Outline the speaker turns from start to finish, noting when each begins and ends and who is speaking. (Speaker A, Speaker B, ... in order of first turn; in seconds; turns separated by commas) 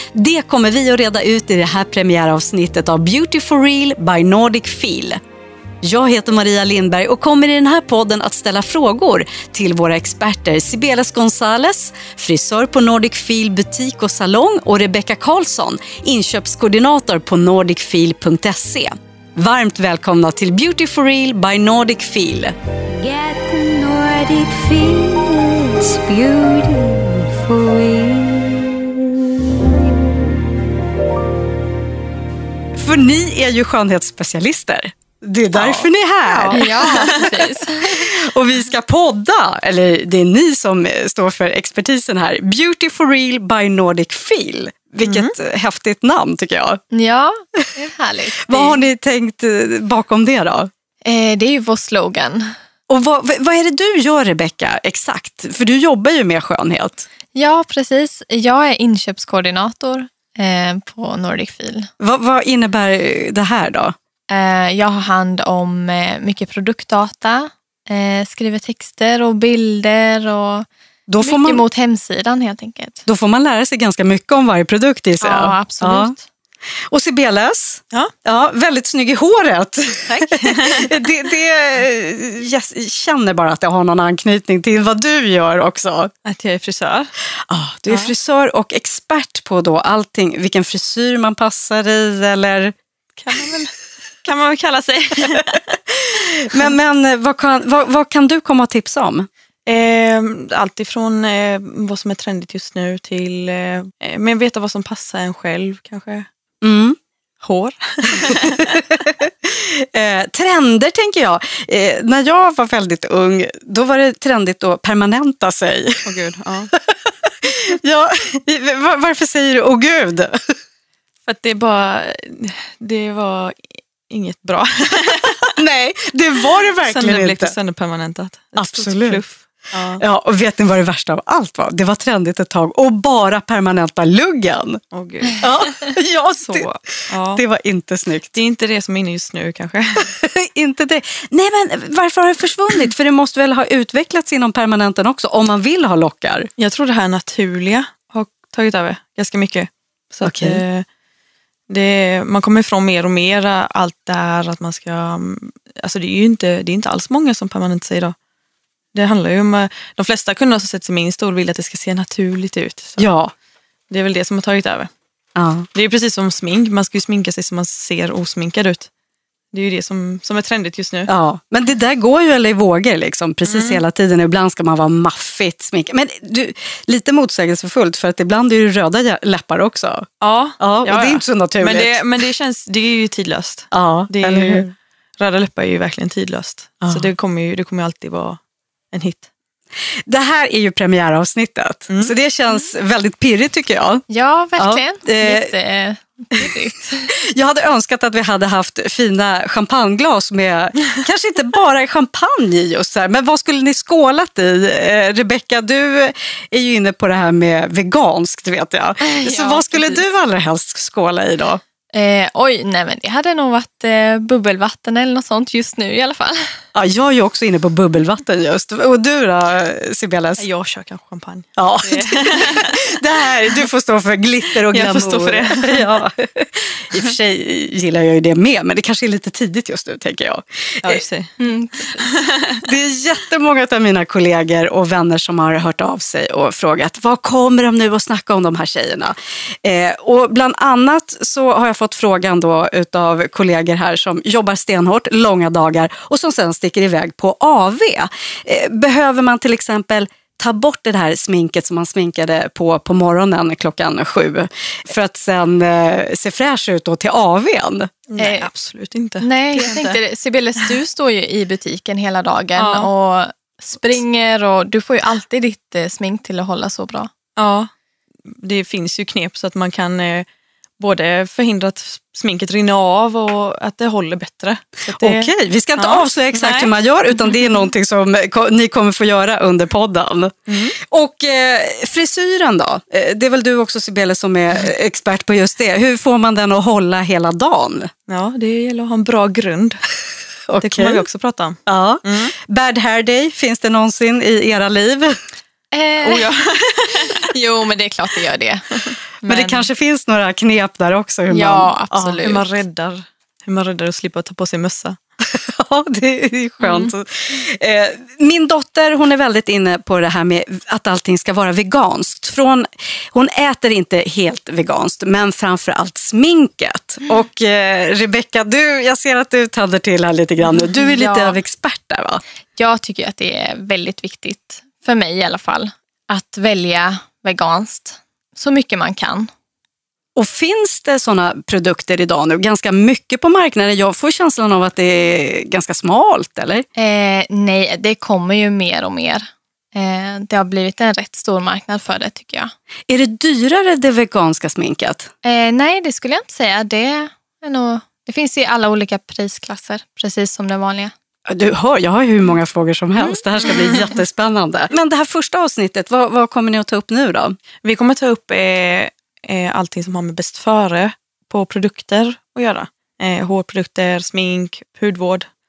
Speaker A: 0.1-5.2, Speaker A: 5.8-22.5, Speaker B: 22.9-28.7, Speaker A: 32.7-37.2, Speaker C: 36.2-37.3, Speaker D: 36.5-38.1, Speaker A: 37.9-46.8, Speaker C: 45.0-45.3, Speaker D: 46.9-48.8, Speaker A: 48.4-50.7, Speaker D: 51.0-52.5, Speaker A: 52.9-57.1, Speaker D: 57.3-61.9, Speaker A: 62.0-63.9, Speaker D: 64.3-70.7, Speaker A: 71.1-71.6, Speaker D: 71.2-73.0, Speaker A: 73.0-76.1, Speaker D: 75.2-76.2, Speaker A: 76.9-86.1, Speaker C: 80.1-80.9, Speaker C: 86.2-87.1, Speaker A: 87.5-92.7, Speaker C: 87.9-88.1, Speaker C: 93.2-93.7, Speaker C: 94.2-95.8, Speaker A: 95.9-99.3, Speaker C: 99.7-106.3, Speaker A: 106.6-107.0, Speaker C: 107.4-108.8, Speaker A: 108.2-116.0, Speaker C: 116.0-116.7, Speaker A: 116.8-120.4, Speaker C: 121.3-125.5, Speaker A: 125.5-127.5, Speaker C: 126.8-130.0, Speaker A: 128.6-129.2, Speaker A: 130.0-134.8, Speaker C: 134.9-135.5, Speaker A: 135.4-138.3, Speaker C: 136.4-137.4, Speaker C: 138.3-140.1, Speaker A: 140.1-146.5, Speaker C: 146.6-150.8, Speaker A: 150.2-150.6, Speaker C: 151.7-158.1, Speaker C: 158.9-163.1, Speaker A: 163.0-163.3, Speaker C: 163.9-164.9, Speaker A: 165.3-165.7, Speaker C: 165.7-168.9, Speaker C: 169.5-171.1, Speaker A: 171.1-180.1, Speaker C: 173.4-173.8, Speaker C: 180.2-188.4, Speaker A: 180.6-182.0, Speaker A: 183.7-184.7, Speaker C: 188.9-189.3, Speaker A: 190.1-195.6, Speaker C: 191.9-192.1, Speaker D: 194.1-197.1, Speaker A: 197.1-211.6, Speaker D: 209.0-210.0, Speaker D: 211.9-216.4, Speaker A: 216.7-220.4, Speaker C: 220.4-222.8, Speaker A: 221.6-231.0, Speaker C: 224.6-225.9, Speaker C: 230.8-231.4, Speaker D: 231.4-232.1, Speaker C: 232.0-232.6, Speaker A: 232.6-257.9, Speaker C: 258.1-260.0, Speaker D: 258.2-258.5, Speaker D: 259.2-267.1, Speaker C: 262.6-262.9, Speaker C: 267.4-267.7, Speaker C: 268.3-270.2, Speaker C: 270.8-276.7, Speaker A: 275.0-287.9, Speaker C: 280.5-280.7, Speaker C: 288.1-289.8, Speaker A: 290.5-291.0, Speaker C: 290.6-292.3, Speaker A: 291.6-295.1, Speaker D: 295.7-296.3, Speaker C: 296.0-297.2, Speaker D: 297.2-299.7, Speaker A: 299.2-302.2, Speaker D: 301.3-302.6, Speaker C: 302.2-305.0, Speaker A: 305.2-322.2, Speaker D: 306.6-306.9, Speaker D: 320.5-321.4, Speaker D: 322.6-329.3, Speaker A: 330.1-336.6, Speaker D: 336.8-342.5, Speaker A: 342.9-345.1, Speaker D: 345.2-350.9, Speaker A: 351.3-357.4, Speaker D: 353.0-353.8, Speaker C: 357.6-365.3